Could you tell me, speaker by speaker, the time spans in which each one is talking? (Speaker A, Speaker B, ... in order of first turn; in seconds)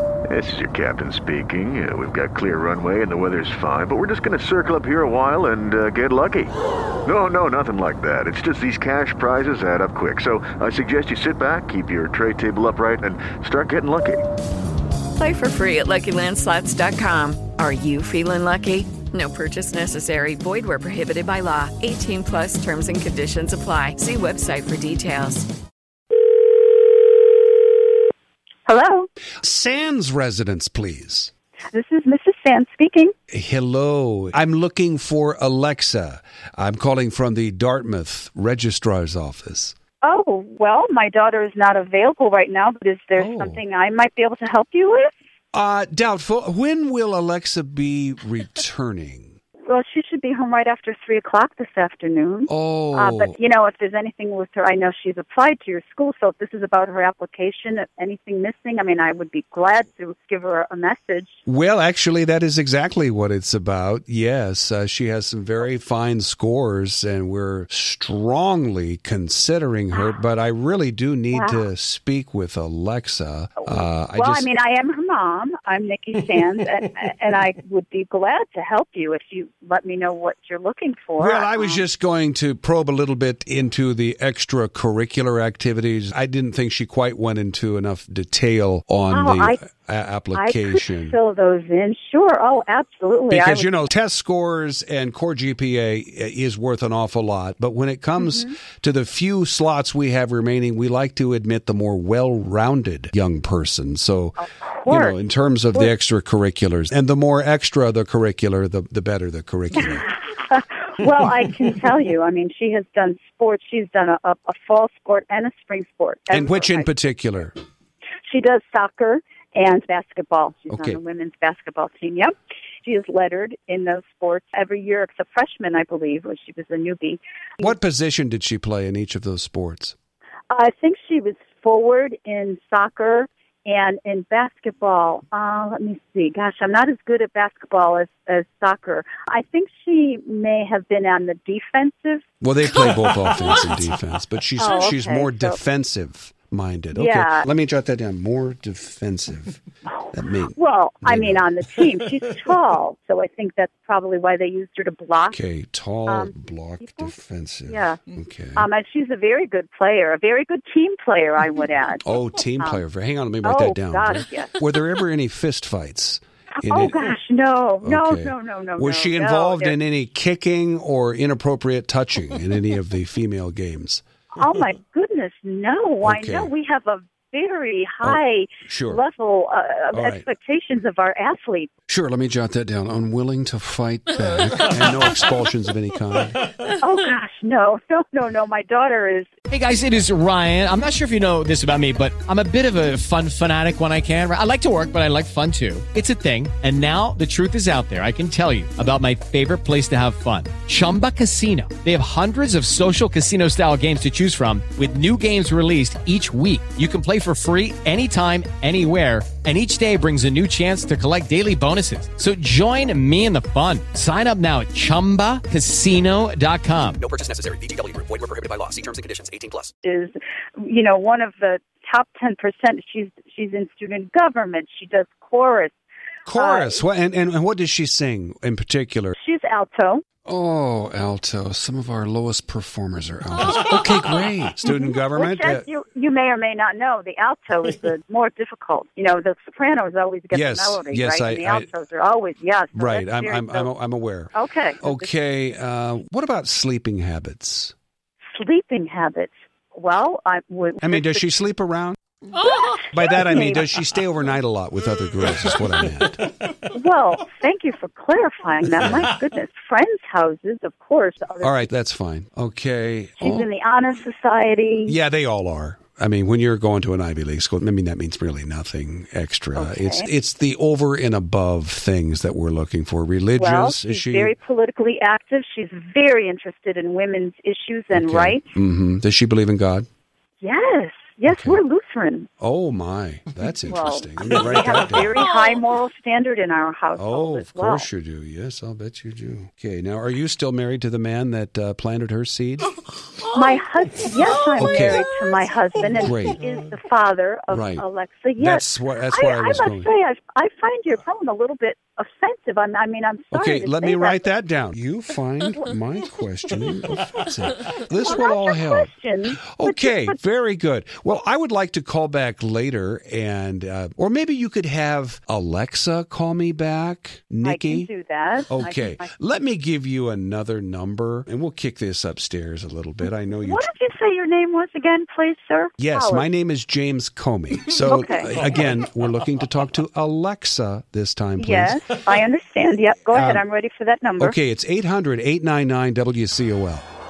Speaker A: 0.3-14.2
Speaker B: 15.2-25.5
Speaker C: 28.7-29.1, 31.7-33.1, 40.0-45.2, 49.7-61.3, 71.3-71.7, 73.6-81.8, 89.1-89.6, 90.3-93.8, 98.2-98.5, 104.4-105.2, 109.8-116.9, 118.3-127.7, 130.5-142.2, 144.6-145.6, 146.9-147.5, 150.0-155.4, 156.1-157.1, 157.7-158.0, 158.6-162.0, 163.4-164.5, 166.6-169.8, 174.4-181.7, 186.7-189.3, 219.8-225.8, 226.3-226.8, 229.2-230.0, 235.1-243.7, 244.3-245.1, 248.3-251.2, 252.3-253.7, 256.6-261.7, 263.2-265.0, 269.6-270.1, 273.4-278.5, 280.4-282.3, 283.7-287.9, 293.3-304.2, 308.0-310.2, 317.4-319.2, 323.4-326.3, 327.9-328.3, 331.4-334.4
Speaker D: 29.4-31.3, 33.3-39.8, 43.2-43.6, 45.5-49.4, 52.5-53.4, 61.5-74.5, 81.2-91.2, 93.3-110.1, 116.3-117.5, 120.7-121.0, 127.6-129.9, 142.4-149.6, 150.1-151.5, 155.3-158.7, 162.0-167.1, 167.8-174.1, 176.0-176.5, 178.0-179.0, 179.9-180.3, 181.9-186.5, 226.3-229.2, 230.2-235.7, 240.3-241.7, 242.8-247.8, 250.8-252.0, 252.9-256.3, 258.8-259.1, 261.4-263.5, 264.9-274.3, 277.9-279.9, 281.3-281.6, 282.4-285.2, 287.0-292.8, 294.6-295.0, 296.0-296.4, 297.5-297.8, 298.4-299.9, 303.3-308.9, 309.5-317.9, 318.5-323.7, 325.8-331.8, 333.1-333.4, 334.2-336.9
Speaker E: 189.5-217.0
Speaker F: 217.0-219.7